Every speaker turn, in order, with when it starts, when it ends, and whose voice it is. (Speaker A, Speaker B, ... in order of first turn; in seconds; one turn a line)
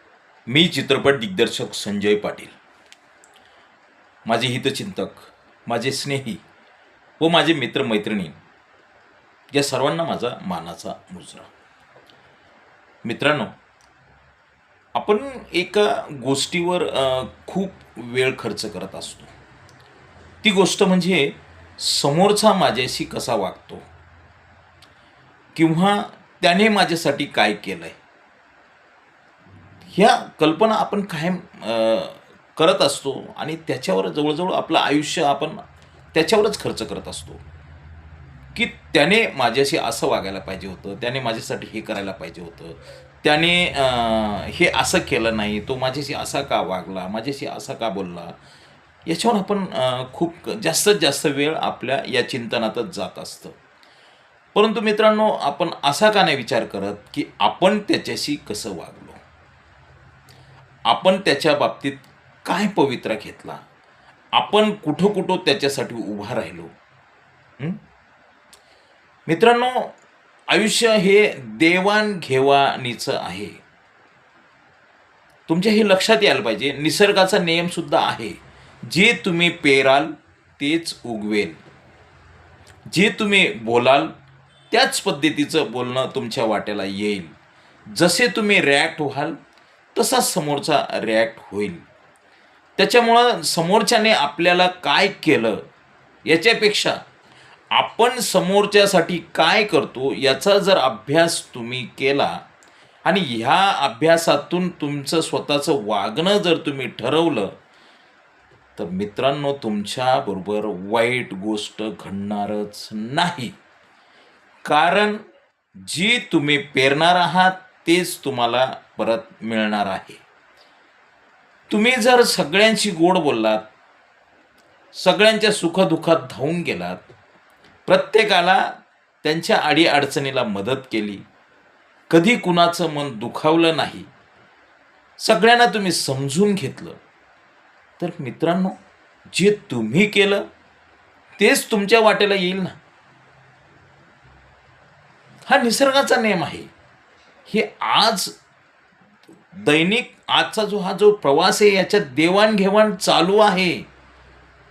Speaker A: 0.5-2.5
Speaker A: 4.2-6.4
Speaker A: 7.2-8.4
Speaker A: 9.5-11.5
Speaker A: 13.0-13.5
Speaker A: 14.9-19.3
Speaker A: 20.4-23.9
Speaker A: 25.6-28.0
Speaker A: 29.9-37.4
Speaker A: 38.5-48.3
Speaker A: 49.0-53.5
Speaker A: 54.5-59.2
Speaker A: 60.9-63.6
Speaker A: 64.3-66.7
Speaker A: 69.3-69.9
Speaker A: 70.5-73.6
Speaker A: 75.5-81.6
Speaker A: 82.9-84.1
Speaker A: 84.7-87.3
Speaker A: 87.9-89.4
Speaker A: 89.9-91.8
Speaker A: 92.8-95.7
Speaker A: 96.2-97.0
Speaker A: 97.7-102.4
Speaker A: 103.0-107.5
Speaker A: 108.8-113.5
Speaker A: 114.6-115.2
Speaker A: 115.8-120.2
Speaker A: 121.7-123.6
Speaker A: 124.9-127.0
Speaker A: 127.9-131.2
Speaker A: 132.1-134.1
Speaker A: 135.2-137.0
Speaker A: 138.0-138.8
Speaker A: 139.3-140.4
Speaker A: 141.4-142.8
Speaker A: 145.4-146.7
Speaker A: 147.5-148.3
Speaker A: 149.5-153.9